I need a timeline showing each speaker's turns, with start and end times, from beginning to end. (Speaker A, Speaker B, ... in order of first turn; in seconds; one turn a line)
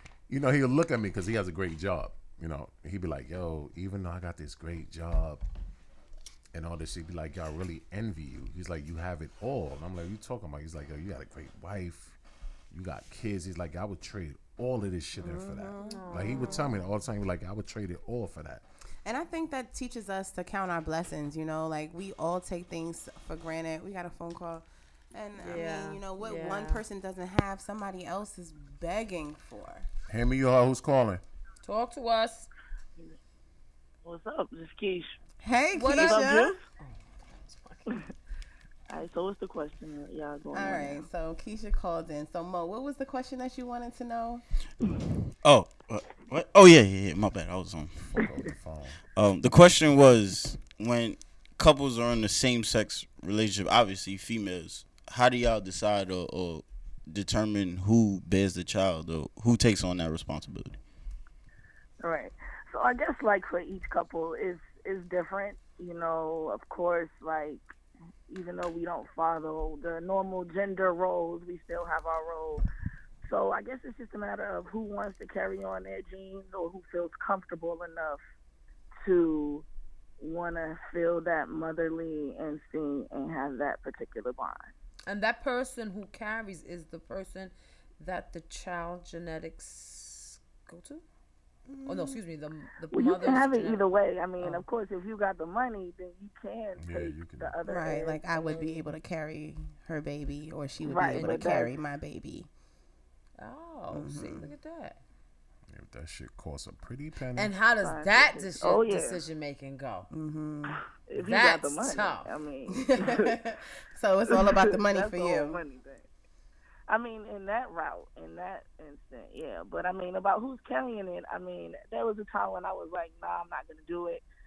Speaker A: 0.3-5.4
Speaker A: 6.5-12.2
Speaker A: 12.7-18.6
Speaker B: 15.2-16.6
Speaker C: 15.8-16.8
Speaker B: 19.0-29.9
Speaker C: 25.4-26.8
Speaker A: 30.1-31.2
Speaker C: 31.6-32.5
Speaker D: 34.0-35.2
Speaker B: 35.4-36.5
Speaker C: 35.7-37.9
Speaker D: 35.9-36.6
Speaker D: 38.9-41.0
Speaker B: 40.5-44.4
Speaker E: 45.4-47.9
Speaker A: 48.1-49.0
Speaker E: 49.1-60.8
Speaker D: 62.0-67.6
Speaker D: 68.3-72.6
Speaker D: 73.2-78.2
Speaker D: 79.0-79.7
Speaker D: 80.2-84.7
Speaker C: 85.1-91.0
Speaker B: 91.7-92.2
Speaker C: 91.8-93.8
Speaker D: 92.9-98.8
Speaker C: 94.4-94.6
Speaker A: 96.8-97.6
Speaker B: 97.6-102.5
Speaker D: 100.8-101.7
Speaker C: 103.4-105.0
Speaker B: 103.9-104.5
Speaker A: 105.7-107.5
Speaker C: 107.3-110.1
Speaker D: 107.8-109.2
Speaker B: 110.1-110.8
Speaker D: 110.7-113.4
Speaker C: 111.2-112.3
Speaker B: 112.7-115.6
Speaker D: 114.3-116.0
Speaker D: 116.9-124.2